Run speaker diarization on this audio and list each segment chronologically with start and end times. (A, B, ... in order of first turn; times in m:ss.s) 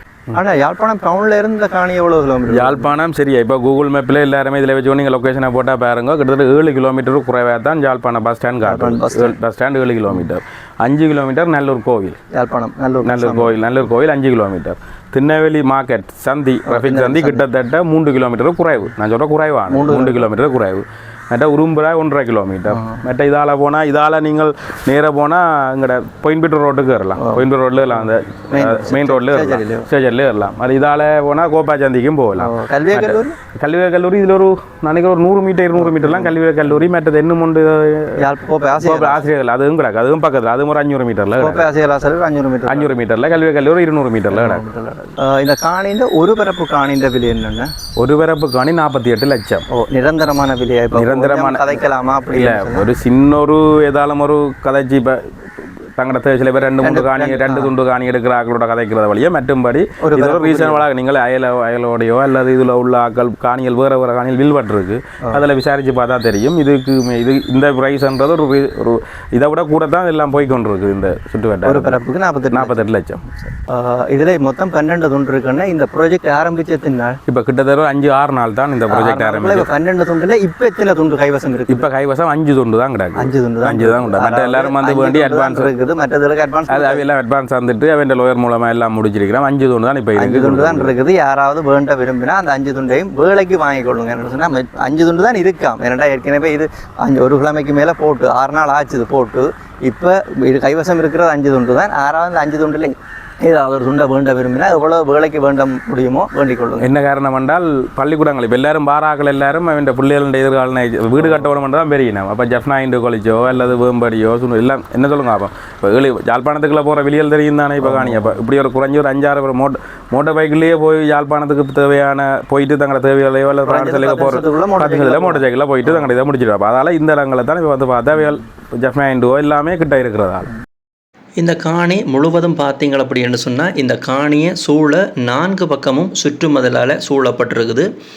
0:00.3-0:02.9 A
0:02.5-0:12.2 B
0:08.6-0:09.3 A
0:12.3-0:13.6 A
0:13.0-0:41.7 B
0:16.6-0:17.4 A
0:19.7-0:20.2 A
0:22.7-0:23.0 A
0:27.2-0:27.4 A
0:28.5-0:29.9 A
0:32.4-0:33.4 A
0:35.8-0:36.3 A
0:38.2-0:39.2 A
0:41.4-0:42.9 A
0:42.7-0:44.6 B
0:44.3-0:47.7 A
0:48.0-0:49.6 B
0:49.7-0:52.9 A
0:50.9-1:13.2 B
0:56.8-0:57.7 A
1:00.0-1:00.8 A
1:11.6-1:12.8 A
1:13.4-1:17.2 A
1:17.3-1:19.7 B
1:18.9-1:21.9 A
1:21.7-1:25.7 B
1:23.2-1:27.0 A
1:26.7-1:30.9 B
1:30.2-1:46.9 A
1:46.8-2:10.5 B
1:57.8-1:58.3 A
2:03.6-2:06.0 A
2:11.4-2:17.9 A